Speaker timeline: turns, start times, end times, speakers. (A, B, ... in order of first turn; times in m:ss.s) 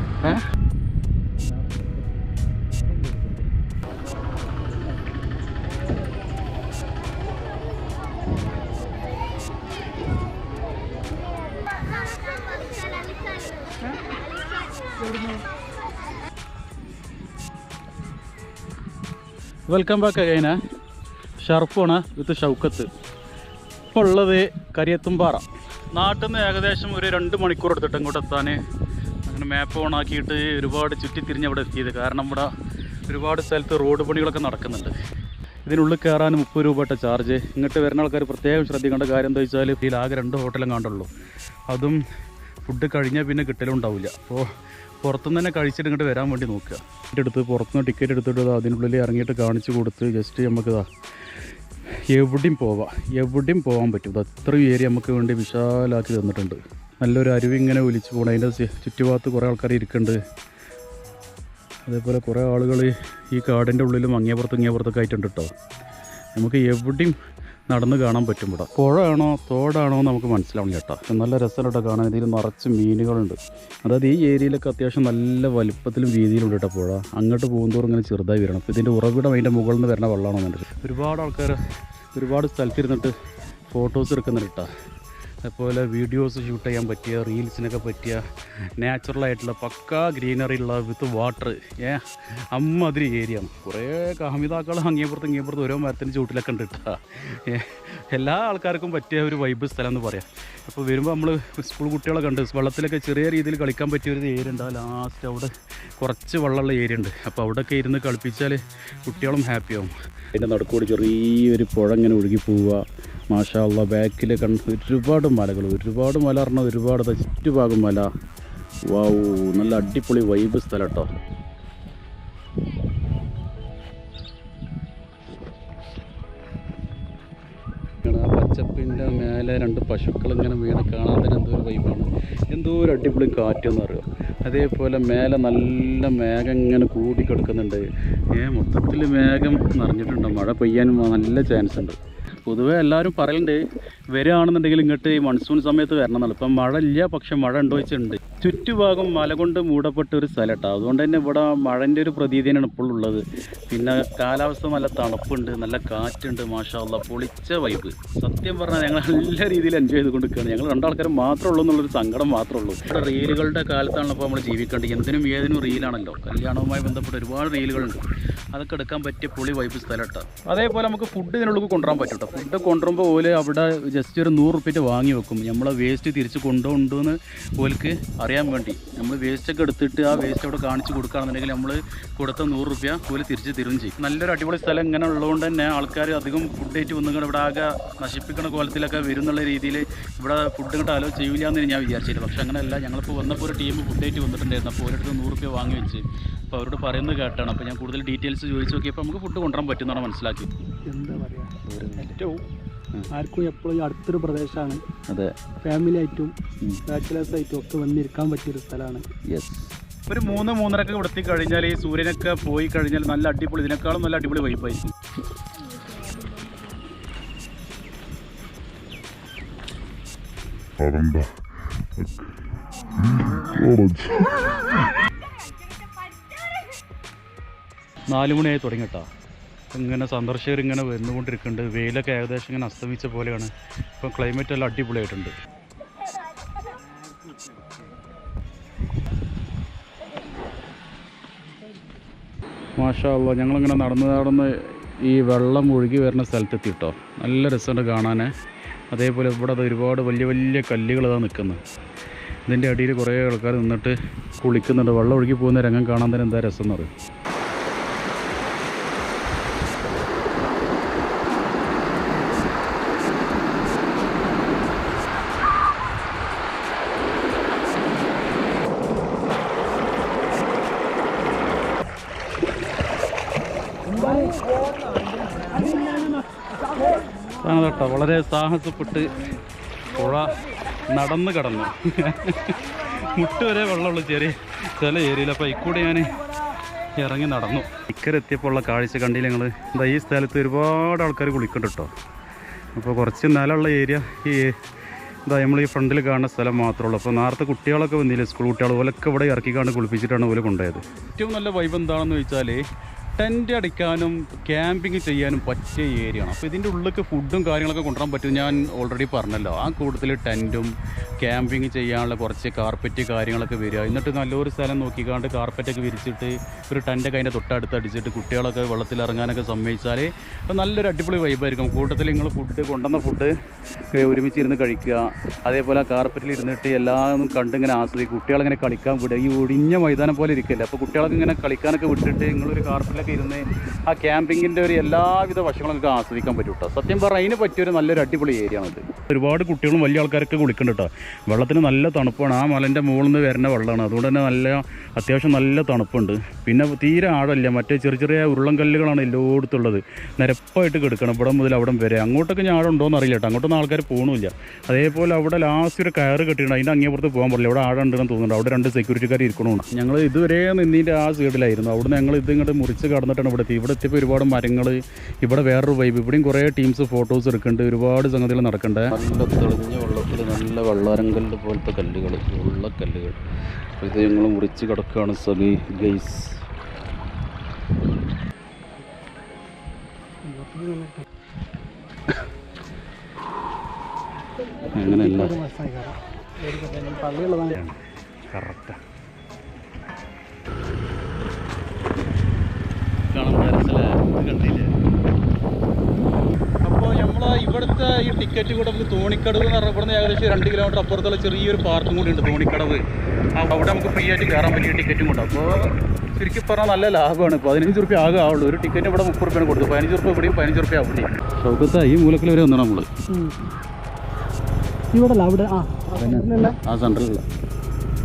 0:19.7-0:20.6 A
0:21.4-0:22.9 A
0:23.9-0:28.6 A
0:29.2-0:32.5 A
0:33.1-0:34.9 A
0:35.6-0:41.1 A
0:41.7-0:42.0 A
0:42.6-0:44.4 A
0:45.0-0:50.9 A
0:52.1-1:00.2 A
1:01.8-1:05.5 A
1:06.3-1:07.2 A
1:07.7-1:21.6 A
1:22.1-1:23.1 A
1:23.7-1:24.7 A
1:25.4-1:28.2 A
1:28.8-1:58.1 A
1:58.9-2:01.1 A
2:08.0-2:23.6 A
2:24.1-2:48.0 A
2:48.5-3:20.5 A
3:20.9-3:21.5 B
3:21.7-3:22.2 A
3:23.2-3:24.8 B
3:25.1-3:25.3 A
3:25.6-3:26.3 B
3:26.9-3:29.0 B
3:29.3-3:34.9 A
3:40.8-3:41.4 C
3:43.1-3:44.4 C
3:48.1-3:49.1 A
3:49.7-3:55.3 A
4:02.8-4:08.3 A
4:08.9-4:11.6 A
4:12.5-4:16.9 A
4:35.6-4:36.0 B
4:37.4-4:39.3 A
4:39.9-4:40.3 A
4:40.9-4:46.2 A
4:47.0-4:51.9 A
4:52.7-4:54.5 A
4:55.2-5:02.6 A
5:03.2-5:10.7 A
5:11.2-5:23.3 A
5:23.9-6:13.2 A
6:13.8-6:16.4 A
6:20.2-6:21.0 B
6:24.7-6:25.4 A
6:25.0-6:27.6 B
6:28.3-6:28.8 A
6:33.1-6:34.7 A
6:36.6-6:42.8 A
6:43.4-6:52.9 A
6:53.1-6:53.4 B
6:54.9-6:56.6 B
6:56.0-6:57.2 A